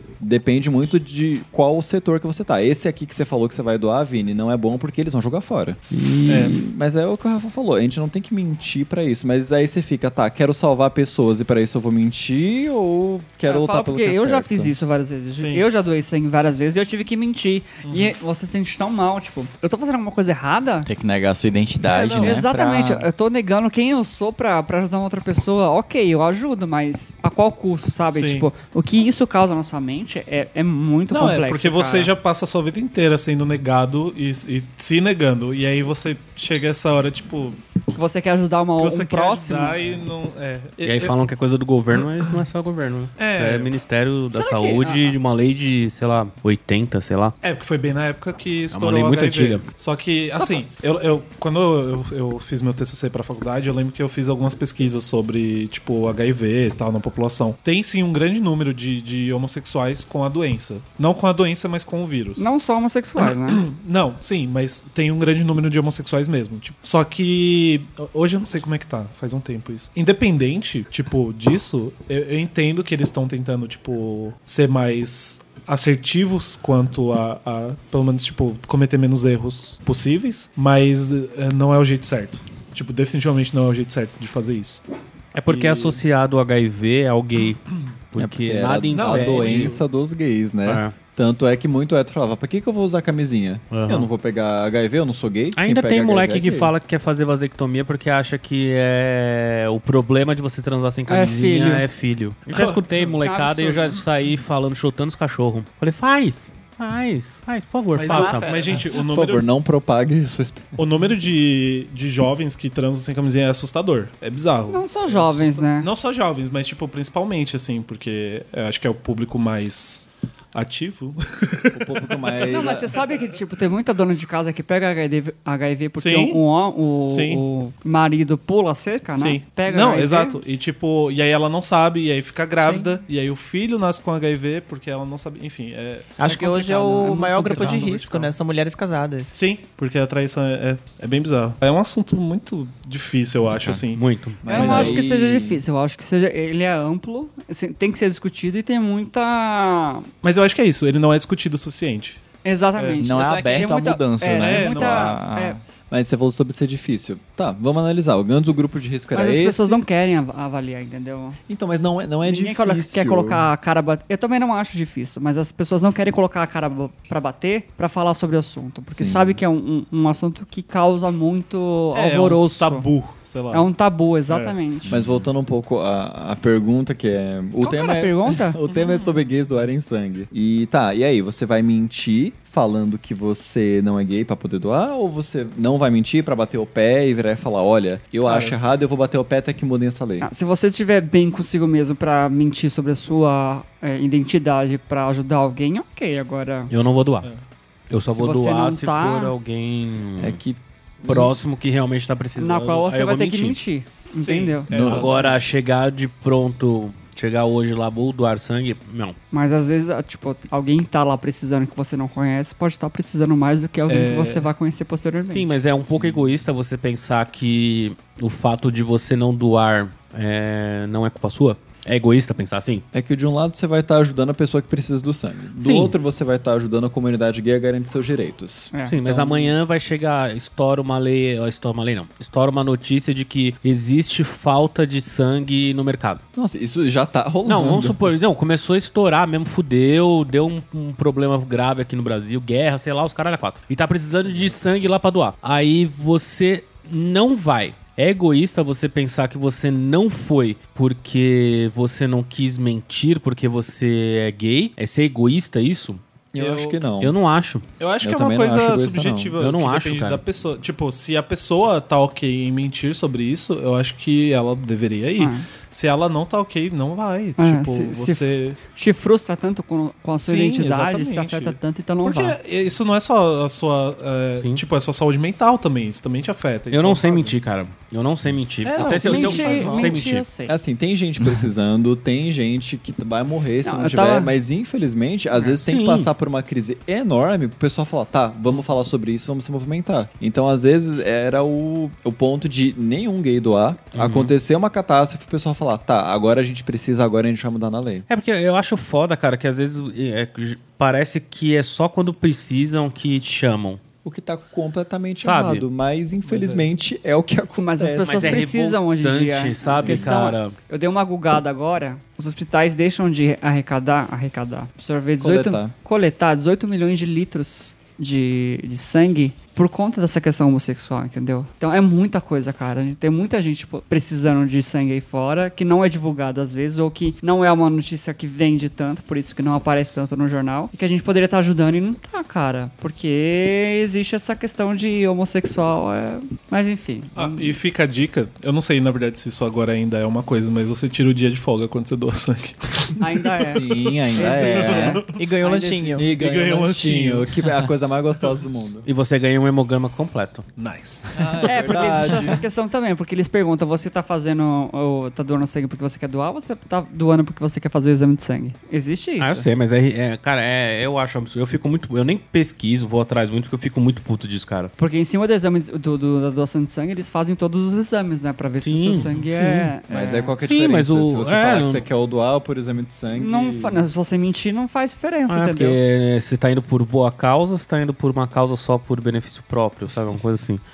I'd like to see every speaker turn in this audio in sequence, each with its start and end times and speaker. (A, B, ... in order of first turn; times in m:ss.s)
0:00.2-0:14.7 A
0:05.9-0:06.4 B
0:06.2-0:06.5 C
0:13.5-0:20.9 D
0:15.4-0:15.6 C
0:17.8-0:18.1 C
0:20.8-0:23.1 B
0:21.8-0:22.4 C
0:22.2-0:32.1 D
0:28.1-0:28.5 C
0:31.1-0:37.6 C
0:37.9-0:39.8 D
0:38.8-0:41.1 C
0:40.8-0:47.3 E
0:43.2-0:43.7 C
0:44.3-0:45.1 D
0:47.4-1:02.4 C
0:48.7-0:49.6 E
1:02.4-1:03.7 D
1:03.2-1:24.8 C
1:25.3-1:29.8 E
1:25.5-1:26.0 C
1:28.2-1:36.7 A
1:28.9-1:29.8 C
1:30.6-1:30.9 E
1:33.7-1:34.1 E
1:35.6-1:48.5 E
1:41.1-1:41.8 D
1:42.5-1:43.0 C
1:43.1-1:44.0 D
1:48.0-1:49.4 C
1:48.1-1:48.8 F
1:48.9-1:50.8 A
1:50.8-2:00.0 C
1:54.7-1:55.9 D
2:00.5-2:02.6 C
2:01.7-2:03.0 A
2:02.5-2:10.4 D
2:06.0-2:06.4 C
2:07.1-2:07.4 C
2:09.2-2:16.2 C
2:12.6-2:12.9 F
2:16.2-2:19.4 F
2:16.2-2:18.3 D
2:19.3-2:25.0 C
2:23.9-2:24.5 E
2:24.4-2:25.6 A
2:24.5-2:30.1 D
2:30.2-2:32.2 C
2:32.4-2:35.6 D
2:32.8-2:33.1 C
2:33.0-2:35.6 B
2:34.3-2:35.2 C
2:35.9-2:39.8 A
2:39.1-2:41.4 D
2:41.5-2:43.5 A
2:42.2-2:52.9 D
2:48.9-2:49.4 A
2:51.9-2:53.7 C
2:53.5-2:55.0 D
2:54.3-2:54.6 C
2:54.8-2:55.3 B
2:54.9-3:10.3 A
2:57.6-2:58.9 D
3:08.2-3:08.6 C
3:10.2-3:16.7 D
3:16.7-3:17.3 E
3:17.9-3:20.4 E
3:18.1-3:19.3 D
3:20.2-3:21.4 A
3:21.0-3:23.6 E
3:22.4-3:24.7 D
3:24.2-3:25.4 C
3:24.7-3:25.1 B
3:24.7-3:29.2 E
3:29.3-3:35.6 D
3:33.9-3:34.5 C
3:35.3-3:42.8 E
3:35.9-3:36.3 A
3:42.9-3:49.5 A
3:45.6-3:45.9 E
3:48.7-3:49.1 D
3:48.8-3:56.2 E
3:56.3-3:58.1 A
3:57.4-4:16.0 E
4:16.3-4:17.1 A
4:16.4-4:16.8 C
4:17.0-4:17.6 E
4:17.8-4:28.6 C
4:18.0-4:19.4 A
4:19.4-4:20.2 E
4:25.2-4:25.4 D
4:27.4-4:32.4 D
4:30.1-4:37.4 C
4:36.7-4:40.2 E
4:38.6-4:40.0 C
4:39.0-4:40.5 D
4:40.5-4:58.0 A
4:43.6-4:44.3 D
4:45.4-4:46.1 E
4:53.9-4:54.3 E
4:58.1-5:03.8 E
5:04.0-5:08.5 A
5:05.2-5:05.6 E
5:06.2-5:06.7 C
5:07.6-5:37.6 D
5:08.0-5:10.6 E
5:09.7-5:10.1 A
5:15.2-5:15.7 A
5:37.1-5:45.2 C
5:43.0-5:46.1 D
5:43.5-5:45.0 A
5:45.1-5:46.0 F
5:45.9-5:48.9 A
5:46.2-5:47.3 C
5:48.8-5:50.4 E
5:50.6-5:52.1 C
5:51.1-5:52.4 A
5:51.4-5:59.5 D
5:59.2-6:04.7 E
6:04.8-6:10.4 D
6:08.6-6:09.7 E
6:09.0-6:09.3 C
6:09.9-6:13.8 A
6:10.4-6:11.8 E
6:13.1-6:15.8 D
6:15.3-6:20.6 E